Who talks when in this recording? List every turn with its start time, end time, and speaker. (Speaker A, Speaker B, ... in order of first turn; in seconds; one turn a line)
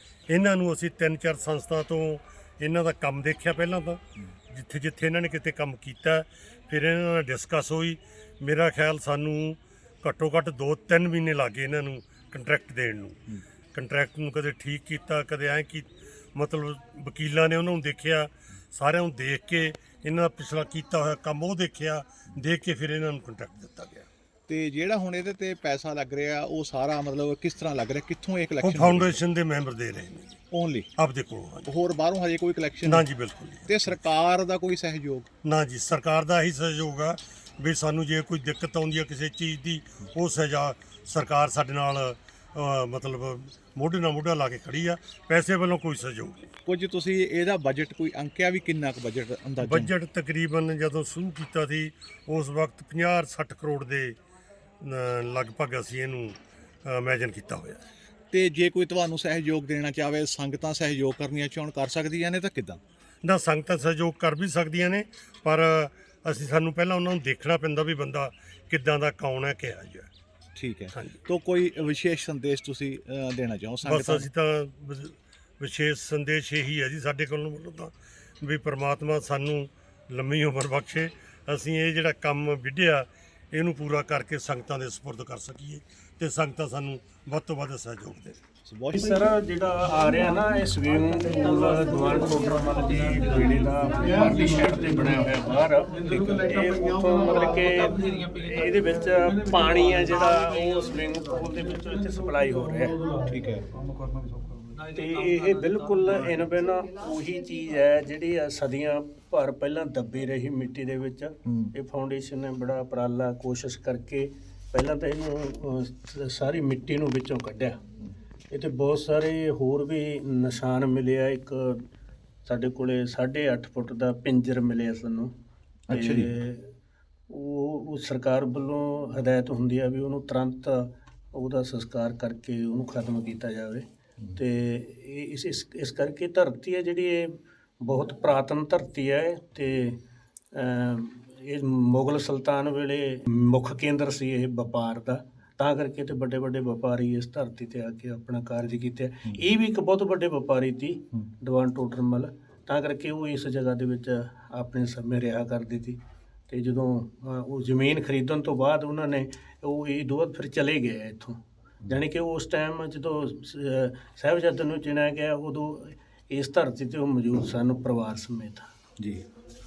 Speaker A: 0.3-24.1
Speaker B: 24.5-29.2
Speaker A: 28.6-30.4
Speaker B: 30.5-30.9
Speaker A: 31.0-31.7
Speaker B: 31.7-33.1
Speaker A: 32.9-33.9
Speaker B: 33.7-35.3
Speaker A: 35.4-46.5
Speaker B: 46.7-49.9
Speaker A: 49.6-54.2
Speaker A: 54.8-57.8
Speaker B: 58.3-62.8
Speaker A: 63.2-70.1
Speaker B: 70.6-74.3
Speaker A: 70.9-71.2
Speaker A: 73.8-88.4
Speaker B: 88.7-89.1
Speaker C: 88.9-103.0
Speaker B: 103.3-103.6
Speaker C: 104.8-117.8
Speaker B: 111.5-111.7
Speaker C: 118.5-121.8
Speaker C: 122.5-125.3
Speaker B: 125.9-126.3
Speaker C: 125.9-126.7
Speaker C: 127.3-133.8
Speaker C: 134.4-140.0
Speaker C: 140.5-161.4
Speaker C: 161.9-168.7
Speaker B: 169.0-169.2